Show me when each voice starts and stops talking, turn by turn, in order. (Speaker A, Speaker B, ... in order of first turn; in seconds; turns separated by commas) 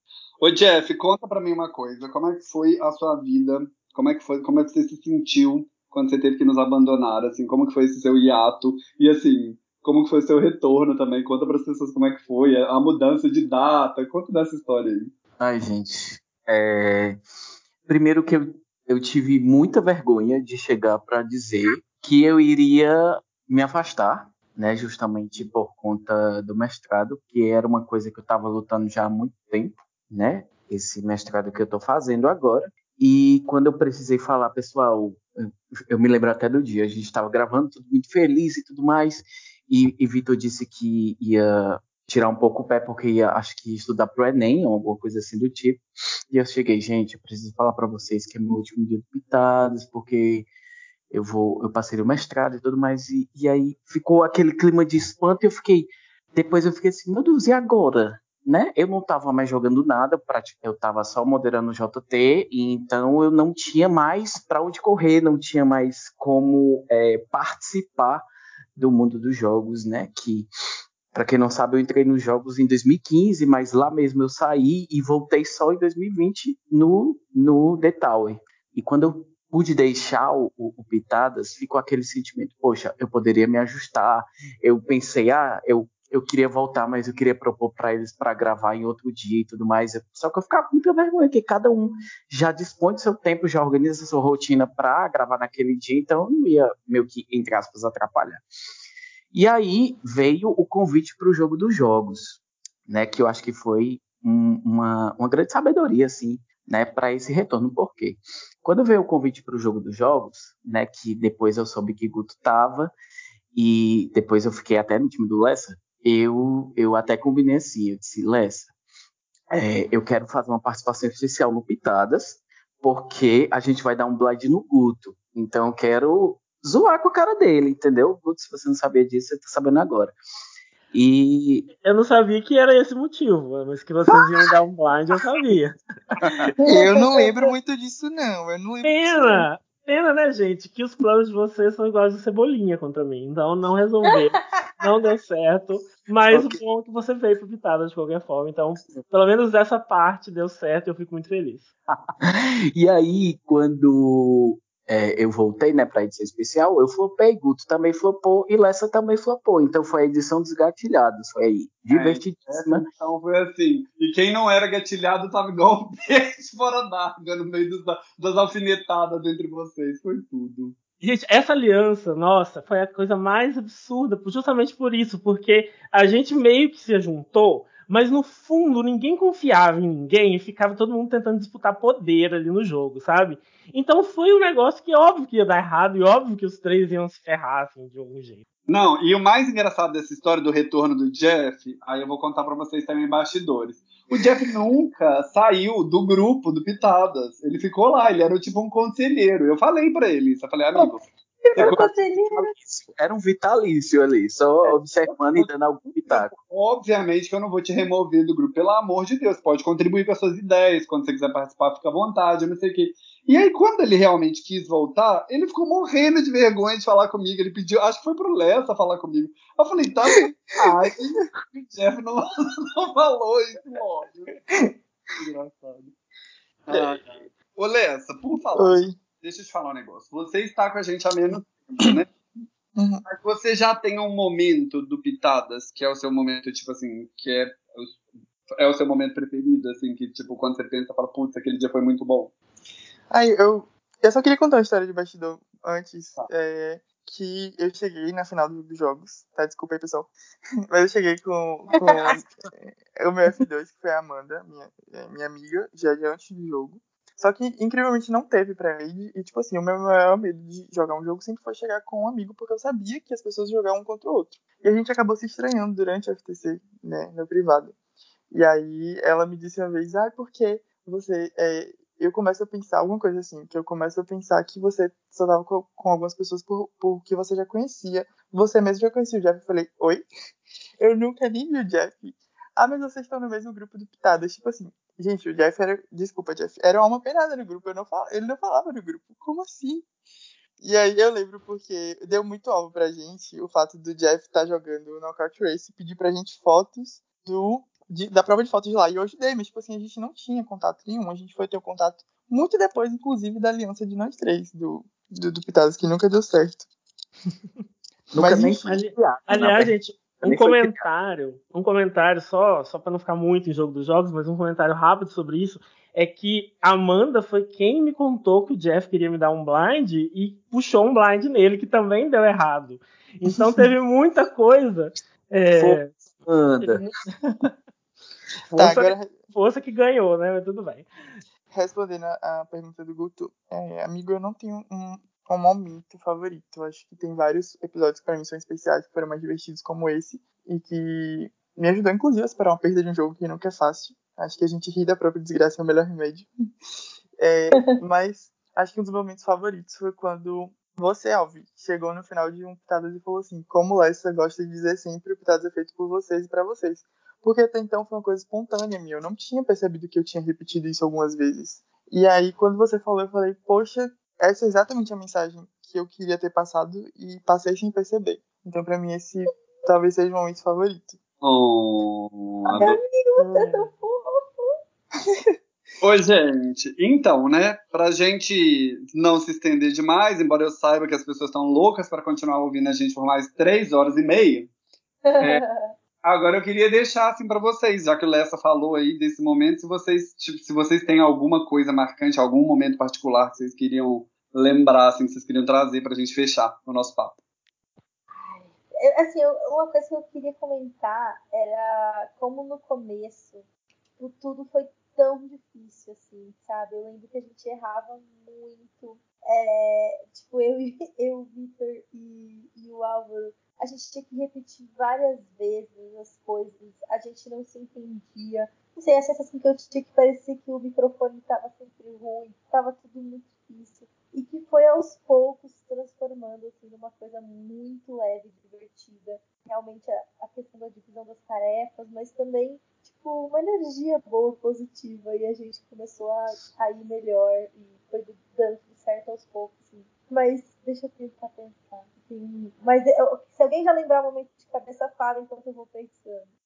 Speaker A: 0.4-15.1, Speaker B: 15.4-17.2, Speaker B: 17.9-50.5, Speaker B: 51.1-68.2, Speaker B: 68.8-70.5, Speaker B: 71.1-98.4, Speaker B: 99.3-112.9, Speaker B: 113.5-118.7, Speaker B: 119.5-130.1, Speaker B: 130.9-131.7, Speaker C: 131.8-135.8, Speaker D: 136.6-139.5, Speaker E: 136.6-137.5, Speaker C: 138.8-151.7, Speaker E: 144.1-144.7, Speaker B: 146.3-146.6, Speaker B: 152.2-162.9, Speaker A: 161.9-170.8, Speaker C: 171.0-188.4, Speaker A: 188.7-201.0, Speaker E: 200.7-202.5, Speaker A: 201.6-201.8, Speaker B: 201.6-206.3, Speaker A: 204.6-205.4, Speaker A: 206.1-224.3, Speaker D: 220.2-221.2, Speaker A: 225.2-225.9, Speaker A: 226.7-232.1, Speaker D: 228.5-228.9, Speaker D: 232.8-233.0, Speaker A: 233.1-242.3, Speaker D: 243.1-250.1, Speaker D: 250.7-267.7, Speaker D: 268.3-280.1, Speaker D: 280.8-289.9, Speaker D: 290.6-306.7, Speaker B: 308.1-310.8, Speaker D: 308.1-308.6, Speaker C: 308.5-325.9, Speaker D: 323.2-323.7, Speaker B: 325.6-326.8, Speaker C: 328.5-330.9, Speaker D: 328.5-329.3, Speaker D: 331.5-346.3, Speaker D: 347.2-371.0, Speaker E: 347.5-347.8, Speaker A: 371.2-372.8, Speaker E: 372.6-374.5, Speaker C: 373.2-373.7, Speaker A: 375.8-384.5, Speaker E: 385.0-385.7, Speaker A: 386.0-397.2, Speaker E: 398.1-403.4, Speaker E: 404.0-446.3